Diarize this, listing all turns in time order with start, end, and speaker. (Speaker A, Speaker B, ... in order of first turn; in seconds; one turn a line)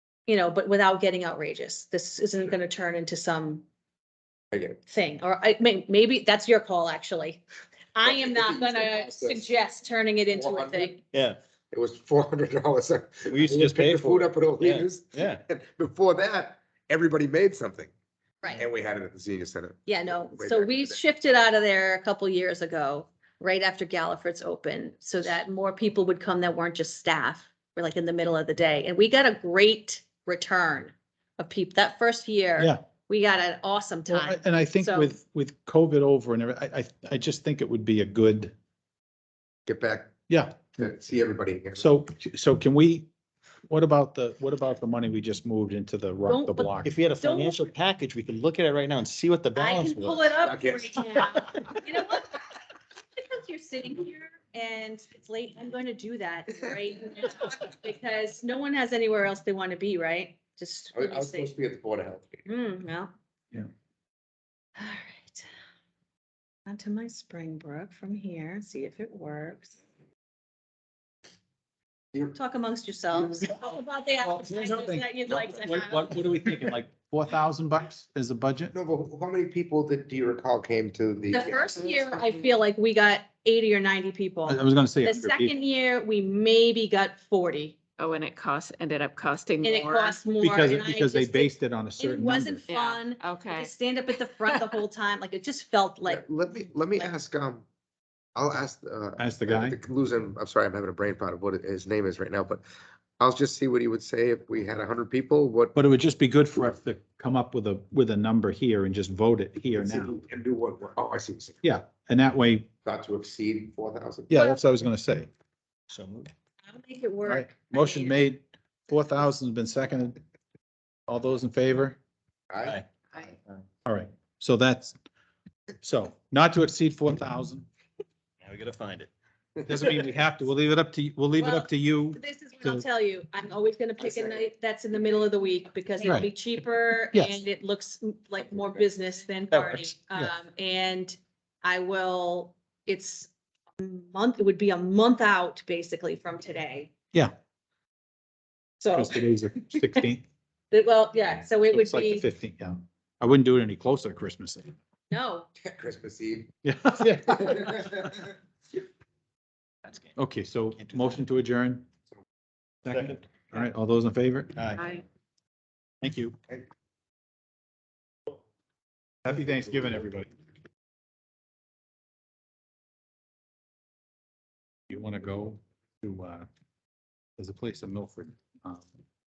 Speaker A: 0.3-3.6
Speaker A: 4.8-7.4
Speaker A: 7.9-11.0
Speaker B: 8.0-9.4
Speaker B: 10.3-10.9
Speaker C: 11.1-11.4
Speaker B: 11.7-17.9
Speaker C: 13.3-15.4
Speaker B: 18.5-19.8
Speaker A: 19.9-35.1
Speaker B: 20.3-20.7
Speaker D: 34.1-38.5
Speaker B: 39.6-40.1
Speaker D: 40.3-40.8
Speaker B: 40.8-41.9
Speaker D: 41.8-43.1
Speaker D: 43.7-47.0
Speaker A: 46.3-47.6
Speaker C: 46.8-50.3
Speaker A: 49.5-52.5
Speaker B: 50.4-51.0
Speaker A: 53.2-61.5
Speaker B: 60.9-62.4
Speaker A: 62.5-63.1
Speaker A: 64.8-65.5
Speaker A: 66.7-69.8
Speaker A: 72.3-76.2
Speaker D: 74.2-78.7
Speaker B: 78.7-81.7
Speaker A: 81.3-87.8
Speaker D: 84.5-85.5
Speaker E: 88.0-90.2
Speaker A: 89.6-96.3
Speaker D: 90.4-92.6
Speaker E: 92.7-93.7
Speaker B: 96.0-97.6
Speaker B: 98.3-102.6
Speaker D: 99.2-99.8
Speaker B: 103.2-105.7
Speaker D: 105.7-110.1
Speaker B: 109.8-111.6
Speaker D: 111.6-112.7
Speaker B: 112.8-114.4
Speaker D: 114.3-115.3
Speaker C: 115.9-116.3
Speaker A: 116.7-118.2
Speaker D: 117.2-120.2
Speaker D: 121.1-122.0
Speaker B: 122.5-122.8
Speaker D: 123.8-125.0
Speaker D: 125.8-127.7
Speaker C: 128.4-129.1
Speaker D: 129.7-132.8
Speaker A: 131.4-146.9
Speaker D: 136.0-136.3
Speaker D: 137.1-137.4
Speaker C: 139.5-139.9
Speaker A: 148.8-149.2
Speaker D: 148.9-150.2
Speaker A: 150.7-152.2
Speaker D: 151.7-154.7
Speaker A: 155.1-155.5
Speaker B: 155.6-156.5
Speaker D: 156.6-158.2
Speaker B: 157.4-157.8
Speaker D: 160.2-161.8
Speaker C: 162.8-163.2
Speaker D: 162.9-164.7
Speaker C: 164.6-164.8
Speaker E: 164.8-165.0
Speaker D: 166.0-166.3
Speaker D: 169.2-170.3
Speaker D: 174.9-176.5
Speaker D: 177.4-178.9